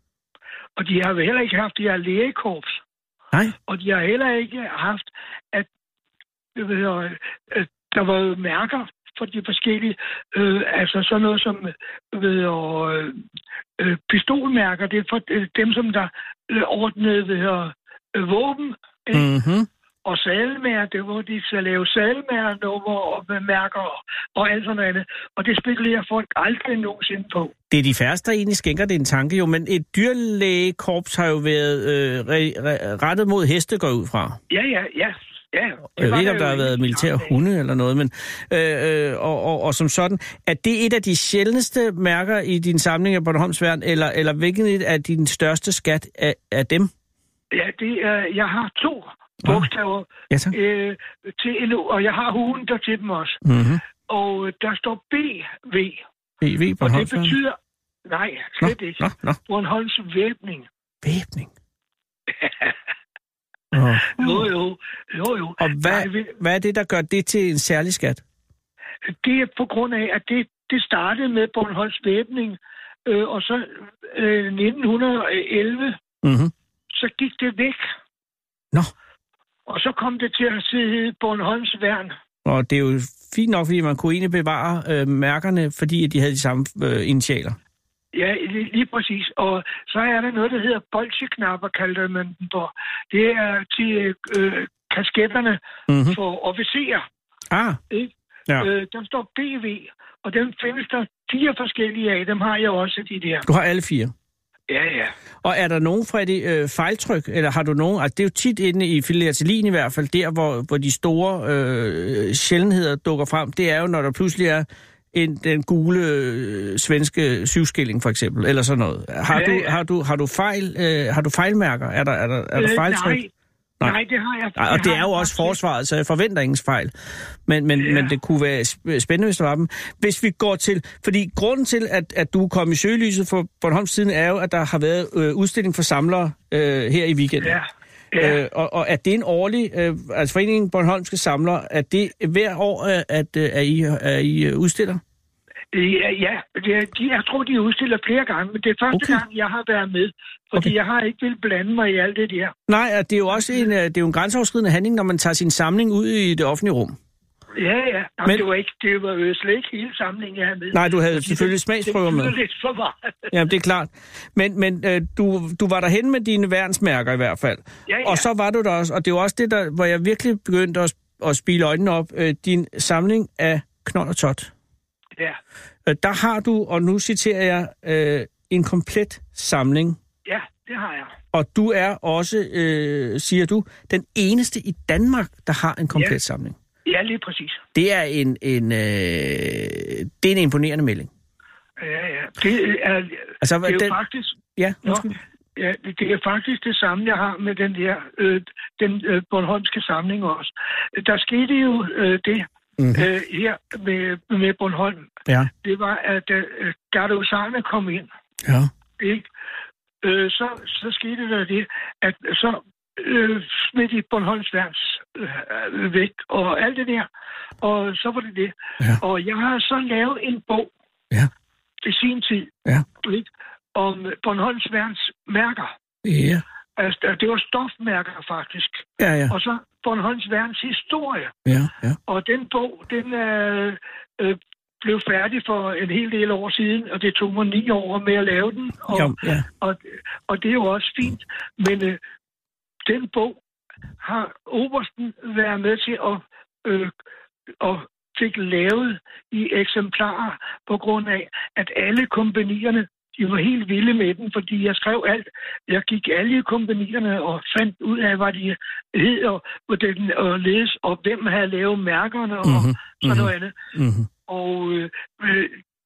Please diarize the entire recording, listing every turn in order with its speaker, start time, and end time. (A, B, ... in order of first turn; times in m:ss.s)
0:00.8-0:02.8 A
0:03.7-0:05.7 A
0:06.6-0:13.2 A
0:13.8-0:19.3 A
0:19.1-0:19.7 B
0:20.0-0:27.5 A
0:27.7-0:34.4 B
0:34.5-0:37.4 A
0:36.0-0:46.9 B
0:47.5-0:53.4 A
0:53.4-0:53.8 B
0:54.1-0:56.0 A
0:56.4-0:57.4 B
0:56.8-1:00.7 A
0:58.6-0:59.4 B
1:01.0-1:01.5 B
1:02.4-1:02.8 A
1:03.7-1:04.5 B
1:04.2-1:06.4 A
1:05.6-1:08.2 B
1:09.1-1:16.0 A
1:16.2-1:16.5 B
1:16.9-1:17.9 A
1:19.7-1:22.2 A
1:22.4-1:27.6 B
1:28.1-1:37.1 A
1:35.9-1:36.2 B
1:37.5-1:37.8 B
1:37.9-1:43.4 A
1:43.5-1:44.1 B
1:44.7-1:45.2 A
1:45.4-2:03.2 B
1:59.3-1:59.8 A
2:02.6-2:03.3 A
2:03.8-2:05.6 A
2:04.6-2:06.9 B
2:07.5-2:17.6 B
2:07.8-2:08.2 A
2:17.4-2:18.4 A
2:18.2-2:25.0 B
2:25.7-2:32.5 A
2:28.9-2:29.2 B
2:32.7-2:37.0 B
2:33.4-2:33.6 A
2:37.6-2:43.3 A
2:40.7-2:42.3 B
2:43.3-2:54.5 B
2:47.9-2:48.2 A
2:55.9-3:00.0 B
3:00.2-3:01.2 A
3:01.3-3:06.6 B
3:06.9-3:07.6 A
3:07.8-3:11.1 B
3:11.8-3:25.1 A
3:13.4-3:14.0 B
3:14.6-3:15.2 B
3:22.8-3:23.0 B
3:25.6-3:28.1 A
3:28.4-3:28.7 B
3:29.0-3:29.3 A
3:30.0-3:37.1 A
3:37.6-3:40.7 A
3:41.8-3:45.7 A
3:46.0-3:46.4 B
3:46.8-3:51.4 A
3:49.0-3:49.4 B
3:51.5-3:52.0 B
3:52.1-4:02.0 A
3:58.9-3:59.4 B
4:02.9-4:03.4 A
4:04.0-4:06.9 A
4:07.6-4:23.5 A
4:22.4-4:24.1 B
4:24.3-4:25.6 A